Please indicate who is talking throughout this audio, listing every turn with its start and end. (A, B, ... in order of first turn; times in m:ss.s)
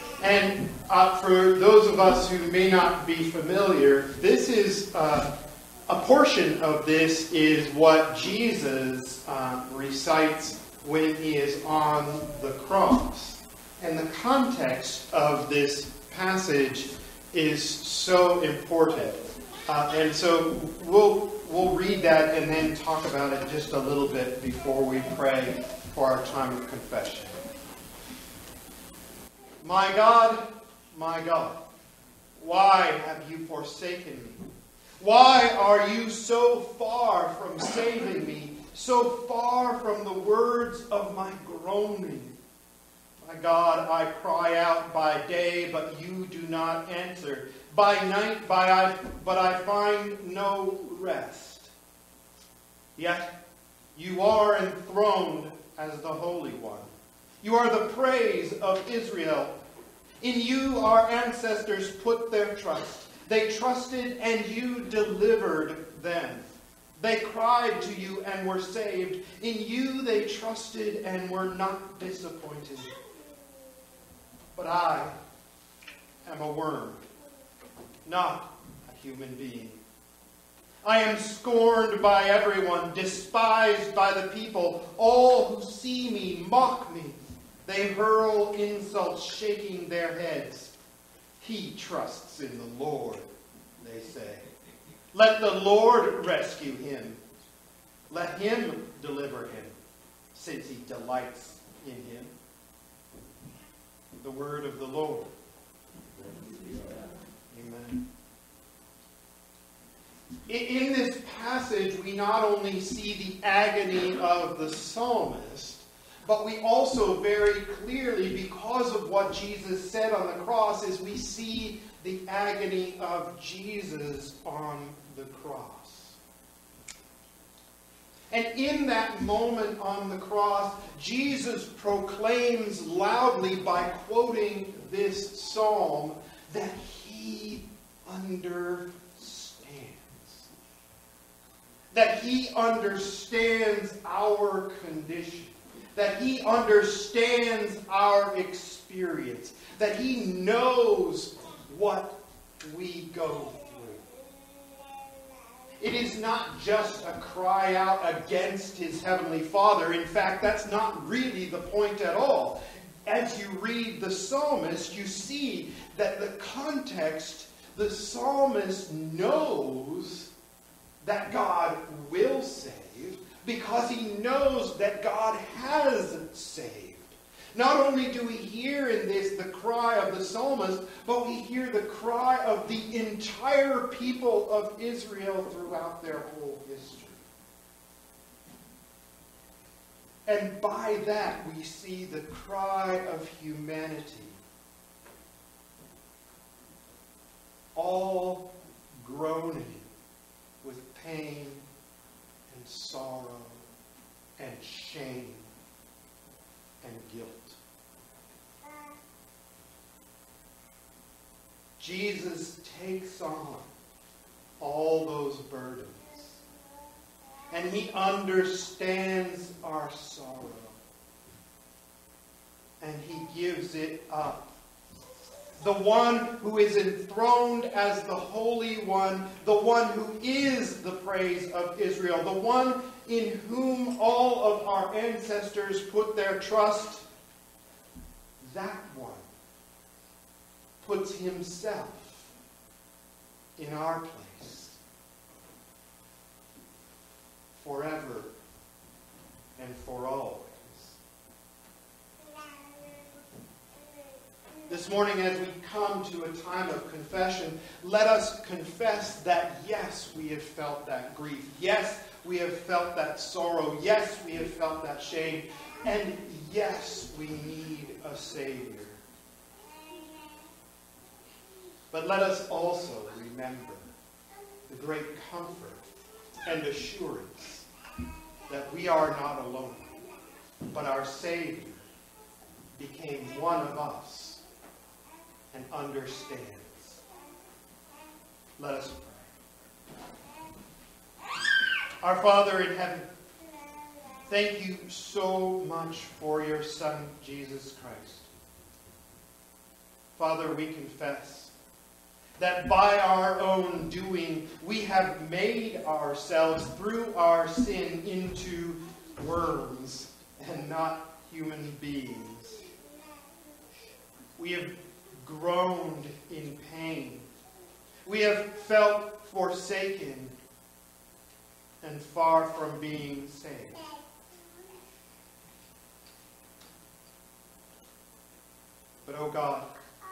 0:00.2-0:05.3 A
0:05.9-0:27.4 A
0:29.6-0:31.6 A
0:32.4-0:34.4 A
0:35.0-0:42.4 A
0:43.2-0:51.7 A
0:53.0-0:53.3 A
0:54.0-0:56.9 A
0:57.4-0:59.6 A
1:00.2-1:06.4 A
1:07.0-1:13.0 A
1:14.6-1:15.2 A
1:16.2-1:17.0 A
1:18.0-1:19.8 A
1:20.8-1:30.7 A
1:31.4-1:33.3 A
1:33.8-1:34.5 A
1:35.1-1:37.2 A
1:38.1-1:39.8 A
1:40.3-1:42.3 A
1:44.2-1:45.3 A
1:47.5-1:48.0 A
1:50.5-2:06.2 A
2:08.3-2:20.5 A
2:21.9-2:34.1 A
2:35.8-2:50.3 A
2:51.0-3:07.2 A
3:10.3-3:14.4 A
3:17.8-3:18.5 A
3:19.0-3:19.9 A
3:20.6-3:21.6 A
3:22.5-3:23.6 A
3:24.4-3:25.5 A
3:26.8-3:27.6 A
3:31.8-3:33.7 A
3:34.6-3:36.4 A
3:37.5-3:40.8 A
3:42.8-3:44.4 A
3:45.6-3:57.0 A
3:58.4-3:59.3 A
4:00.8-4:02.3 A
4:03.6-4:04.8 A
4:07.5-4:08.3 A
4:09.6-4:11.0 A
4:14.7-4:29.0 A
4:31.9-4:33.9 A
4:34.7-4:35.8 A
4:36.5-4:37.7 A
4:38.5-4:40.0 A
4:40.7-4:41.9 A
4:42.8-4:44.4 A
4:45.5-4:47.0 A
4:48.6-4:49.3 A
4:52.0-4:53.1 A
4:54.2-4:58.3 A
5:00.2-5:01.5 A
5:02.4-5:12.7 A
5:14.4-5:17.3 A
5:18.0-5:20.4 A
5:21.8-5:24.0 A
5:29.0-5:29.7 A